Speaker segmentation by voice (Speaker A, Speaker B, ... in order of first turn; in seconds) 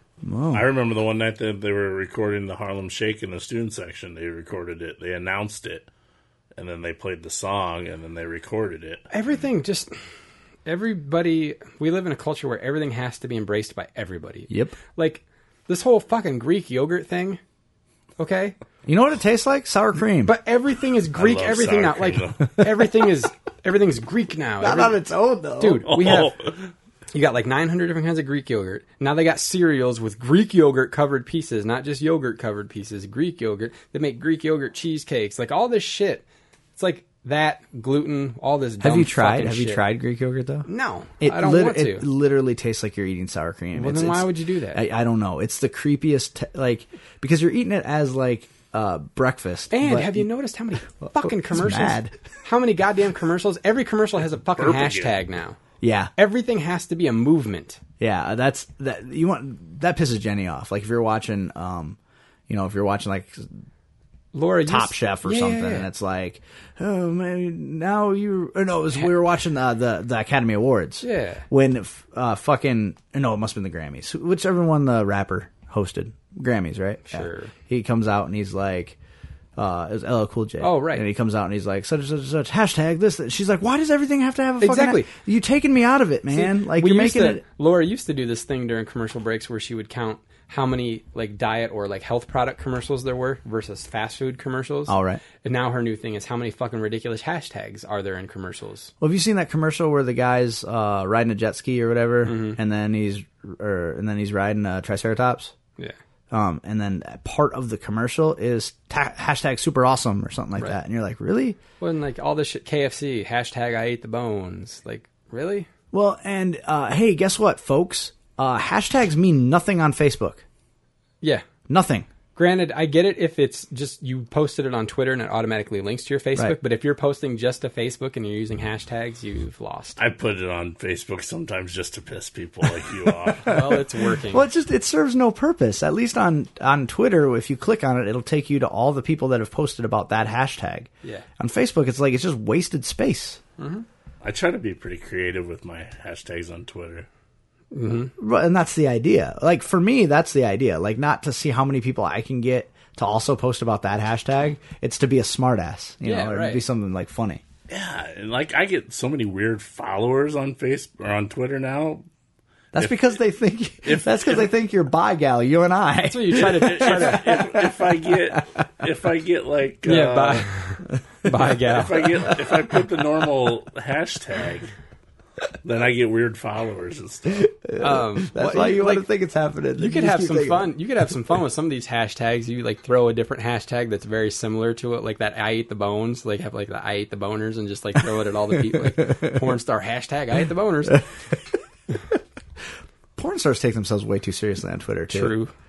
Speaker A: 0.2-0.7, 14.5-14.8, 18.9-20.4, 24.6-26.3, 38.8-40.7, 41.2-50.3, 51.0-52.2, 55.8-56.1, 58.0-63.5, 64.7-79.0, 79.6-87.4, 94.9-95.2, 99.0-105.5, 106.3-111.6, 115.9-120.5, 121.7-122.1, 134.3-143.4, 148.2-157.4, 162.7-168.6, 177.5-180.7, 188.7-189.4, 193.2-195.4
Speaker B: 0.5-5.9, 6.5-9.1, 21.1-22.5, 25.9-26.7, 54.6-55.2, 130.0-133.8, 144.2-147.1, 157.7-162.1, 162.8-163.1, 163.8-164.5, 166.4-170.5, 171.6-174.7, 175.6-177.5
Speaker C: 9.1-9.9, 10.7-17.4, 18.2-18.6, 20.2-25.0, 25.6-26.3, 27.1-36.2, 36.8-39.9, 40.7-42.1, 43.7-44.8, 49.7-55.6, 56.2-57.8, 64.3-65.9, 71.0-71.5, 77.1-77.5, 80.6-81.1, 84.6-85.1, 86.3-98.9, 102.2-102.6, 111.8-115.7, 121.2-121.5, 122.4-130.0, 133.4-134.5, 143.6-143.9, 147.7-148.1, 156.0-156.6, 166.1-167.3, 169.8-172.3, 177.8-179.1, 179.8-191.1, 195.1-195.5